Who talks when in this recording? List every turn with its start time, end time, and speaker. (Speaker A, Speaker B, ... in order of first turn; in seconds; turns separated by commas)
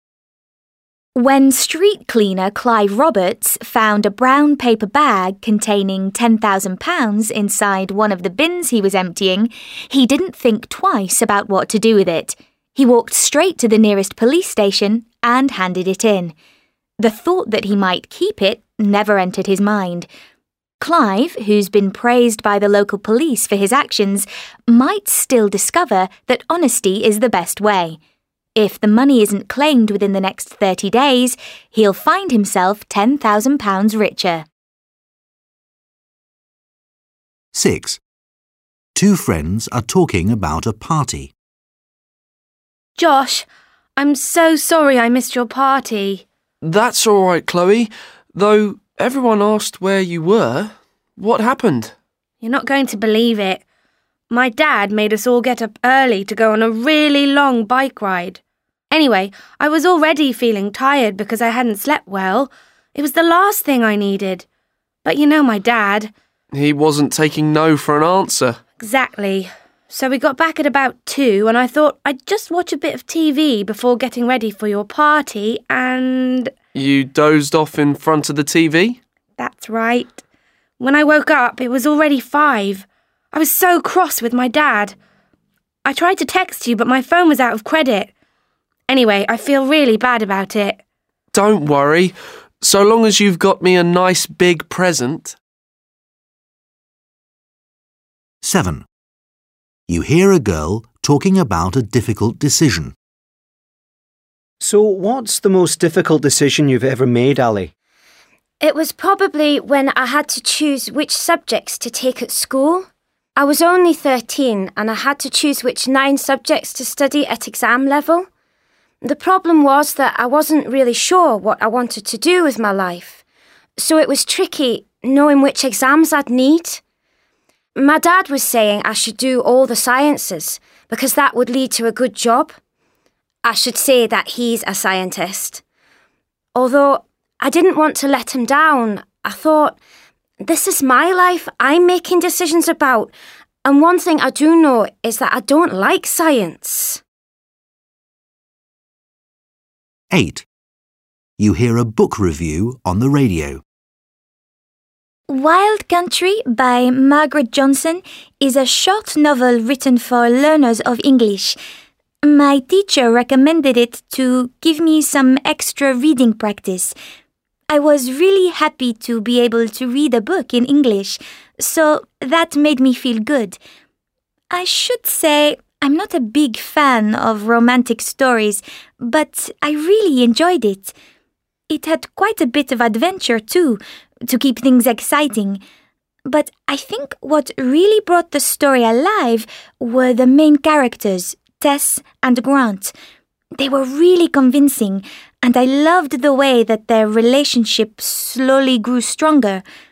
Speaker A: 1.1-16.3, Speaker A: 17.0-20.1, Speaker A: 20.8-28.0, Speaker A: 28.5-34.4, Speaker B: 37.5-38.0, Speaker B: 38.9-41.3, Speaker C: 43.0-43.5, Speaker C: 44.0-46.2, Speaker D: 46.6-51.9, Speaker C: 52.4-53.6, Speaker C: 54.3-58.4, Speaker C: 58.9-64.4, Speaker C: 65.0-66.1, Speaker D: 66.5-68.6, Speaker C: 68.8-76.5, Speaker D: 76.7-79.0, Speaker C: 79.4-80.2, Speaker C: 80.8-84.9, Speaker C: 85.8-88.1, Speaker C: 88.9-90.8, Speaker D: 91.3-95.3, Speaker B: 98.4-98.8, Speaker B: 99.9-102.9, Speaker E: 104.6-107.7, Speaker F: 108.6-112.8, Speaker F: 113.4-118.2, Speaker F: 119.0-123.2, Speaker F: 123.8-126.8, Speaker F: 127.8-132.5, Speaker F: 133.4-135.6, Speaker F: 136.5-139.8, Speaker F: 140.4-143.1, Speaker F: 143.6-147.0, Speaker B: 150.1-150.4, Speaker B: 151.4-153.6, Speaker A: 155.3-161.6, Speaker A: 162.2-166.9, Speaker A: 167.7-173.6, Speaker A: 174.5-180.9, Speaker A: 181.7-185.6, Speaker A: 186.3-192.9, Speaker A: 193.6-199.6